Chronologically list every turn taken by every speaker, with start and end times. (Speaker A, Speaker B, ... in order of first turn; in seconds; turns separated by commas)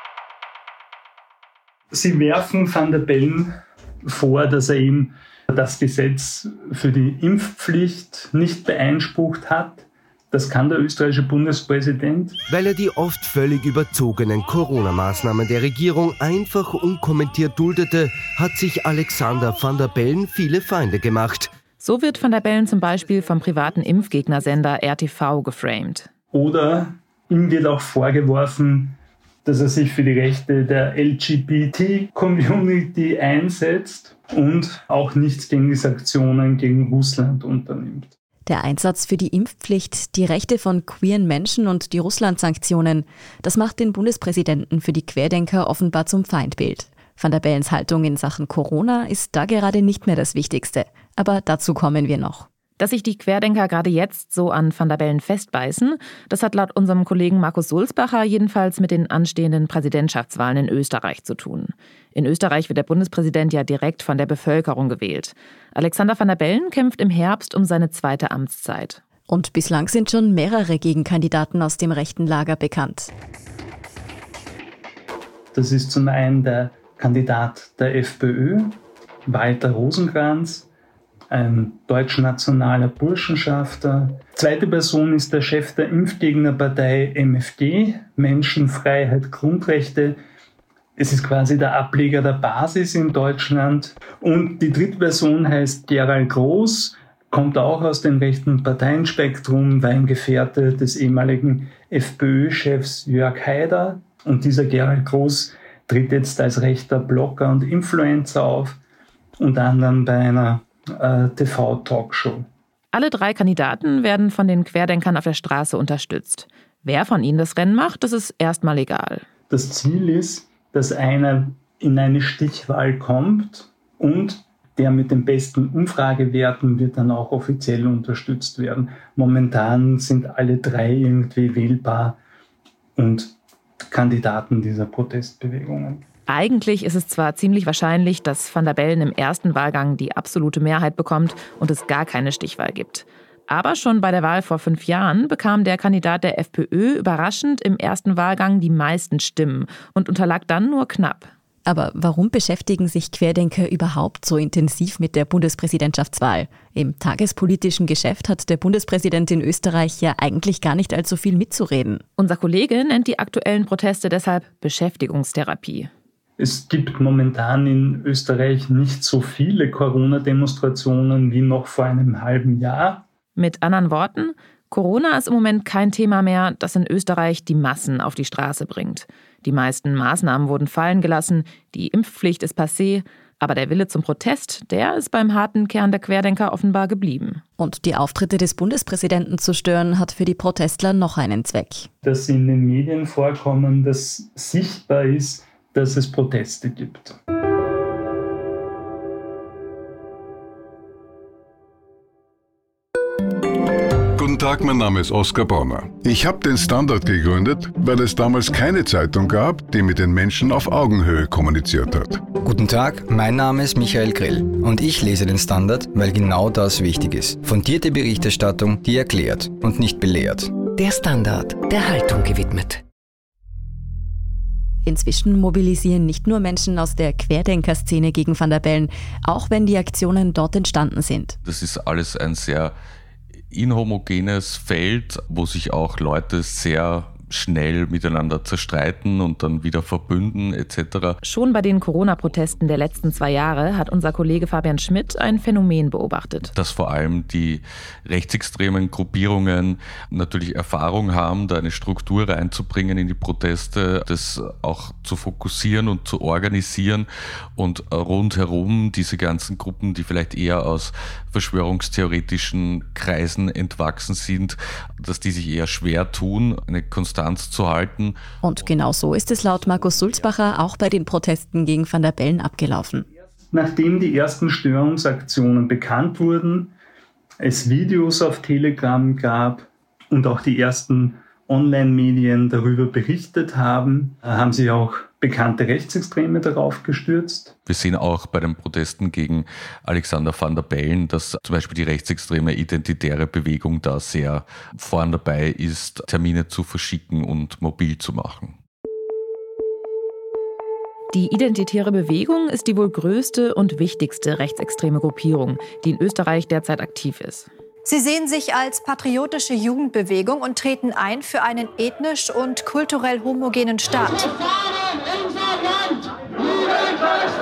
Speaker A: 1.9-12.4, Speaker B: 12.5-21.5, Speaker C: 21.8-26.1, Speaker A: 26.3-38.1, Speaker D: 38.5-52.5, Speaker C: 52.8-69.0, Speaker D: 69.3-73.1, Speaker A: 75.5-80.7, Speaker A: 81.3-90.2, Speaker A: 91.0-108.8, Speaker A: 109.4-112.5, Speaker C: 112.9-119.2, Speaker A: 119.5-132.2, Speaker A: 132.9-136.0, Speaker C: 136.3-151.3, Speaker D: 151.7-162.0, Speaker C: 162.2-165.9, Speaker A: 166.4-173.1, Speaker C: 173.3-187.4, Speaker D: 187.6-191.9, Speaker A: 192.0-197.2, Speaker E: 204.1-212.3, Speaker F: 212.4-220.6, Speaker G: 220.6-222.8, Speaker D: 224.8-231.4, Speaker H: 231.4-232.7, Speaker H: 233.5-241.2, Speaker C: 241.2-246.5, Speaker H: 246.5-268.2, Speaker D: 268.4-273.1, Speaker A: 273.5-276.7, Speaker A: 277.4-287.5, Speaker H: 287.6-298.6, Speaker C: 301.1-307.5, Speaker I: 307.8-314.3